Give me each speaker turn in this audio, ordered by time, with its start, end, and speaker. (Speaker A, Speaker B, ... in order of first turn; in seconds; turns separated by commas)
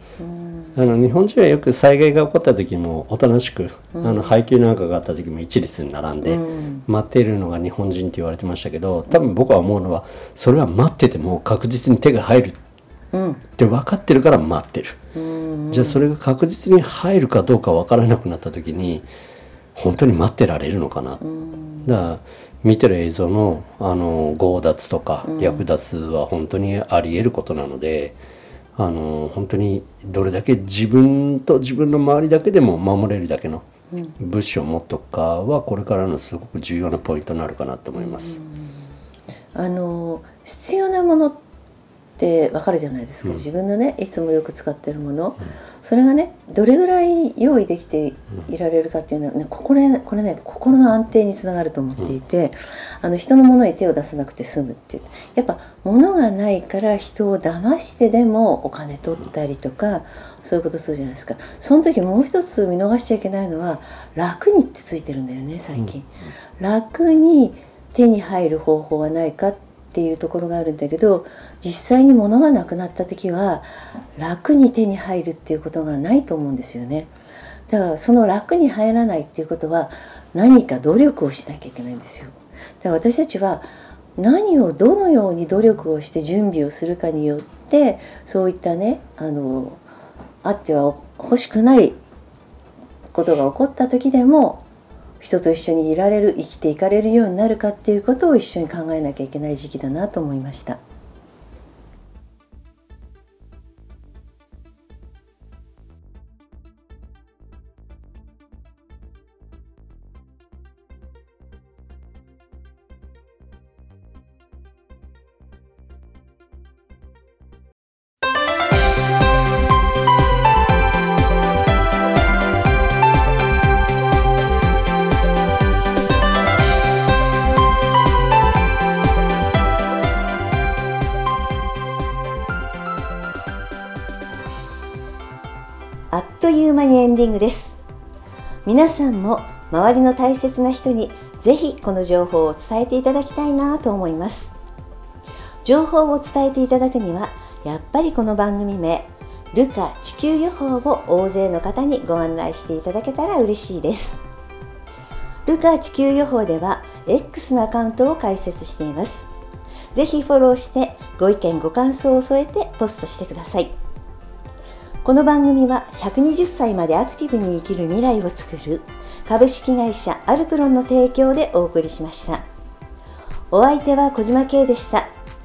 Speaker A: 0.2-0.8, Speaker B: 0.7-12.6, Speaker A: 4.0-4.3, Speaker A: 6.2-6.8, Speaker A: 13.1-13.4, Speaker B: 13.6-15.0, Speaker A: 15.1-16.0, Speaker B: 15.7-19.1, Speaker B: 19.7-21.2, Speaker A: 21.2-21.9, Speaker B: 21.8-28.2, Speaker A: 25.2-25.7, Speaker B: 28.8-33.6, Speaker B: 34.2-38.4, Speaker A: 38.0-38.8, Speaker A: 39.5-41.4, Speaker A: 42.2-77.1, Speaker A: 77.7-89.8, Speaker A: 90.4-92.0, Speaker A: 93.1-94.6, Speaker A: 95.2-100.8, Speaker A: 136.1-137.8, Speaker A: 138.6-144.5, Speaker A: 145.6-154.2, Speaker A: 155.4-159.3, Speaker A: 159.9-163.8, Speaker A: 165.0-172.4, Speaker A: 173.5-175.1